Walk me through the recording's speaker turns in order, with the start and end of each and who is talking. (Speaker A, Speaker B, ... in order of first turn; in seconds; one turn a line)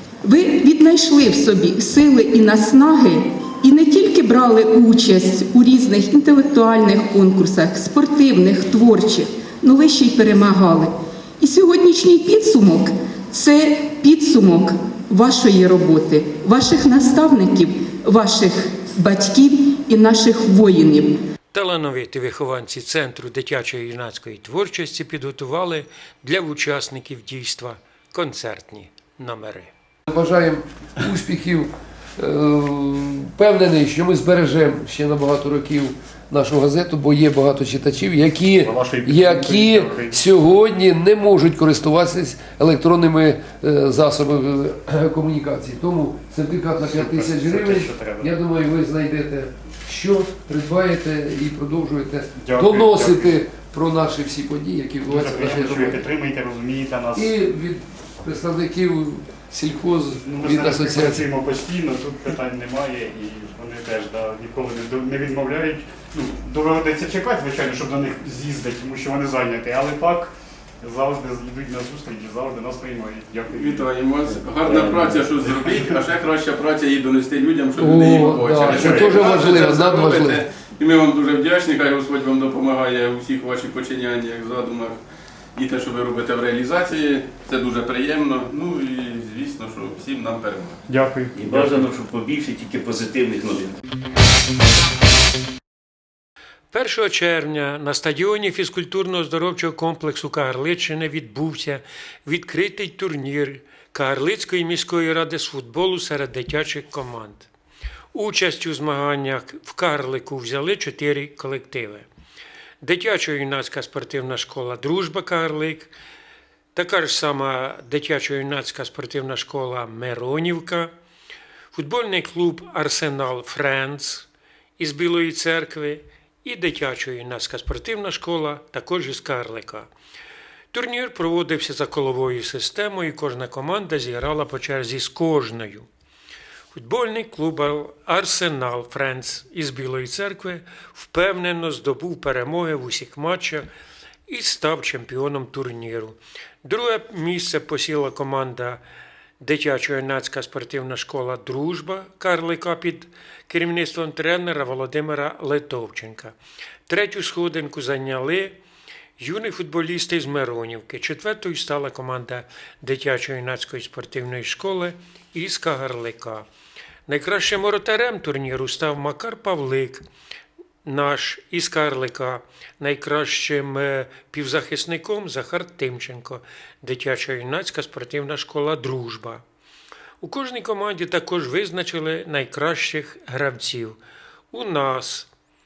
Speaker A: 0.2-21.2
Speaker B: 21.5-29.7
Speaker C: 30.1-56.1
Speaker D: 38.6-40.3
Speaker D: 46.9-48.3
Speaker D: 52.4-53.4
Speaker D: 55.1-57.4
Speaker C: 57.1-61.3
Speaker D: 60.2-73.9
Speaker E: 73.5-85.0
Speaker D: 74.6-75.8
Speaker C: 77.8-80.4
Speaker D: 78.7-79.5
Speaker E: 85.5-90.8
Speaker D: 90.9-91.9
Speaker F: 91.3-93.8
Speaker B: 96.7-107.5
Speaker B: 108.1-112.1
Speaker B: 112.8-115.9
Speaker B: 116.7-120.9
Speaker B: 121.7-124.3
Speaker B: 124.8-129.9
Speaker B: 130.7-135.9
Speaker B: 136.7-143.7
Speaker B: 144.3-148.8
Speaker B: 149.4-156.4
Speaker B: 156.9-158.6
Speaker B: 159.2-166.5
Speaker B: 167.1-170.1
Speaker B: 170.8-179.4
Speaker B: 180.2-184.0
Speaker B: 184.5-185.3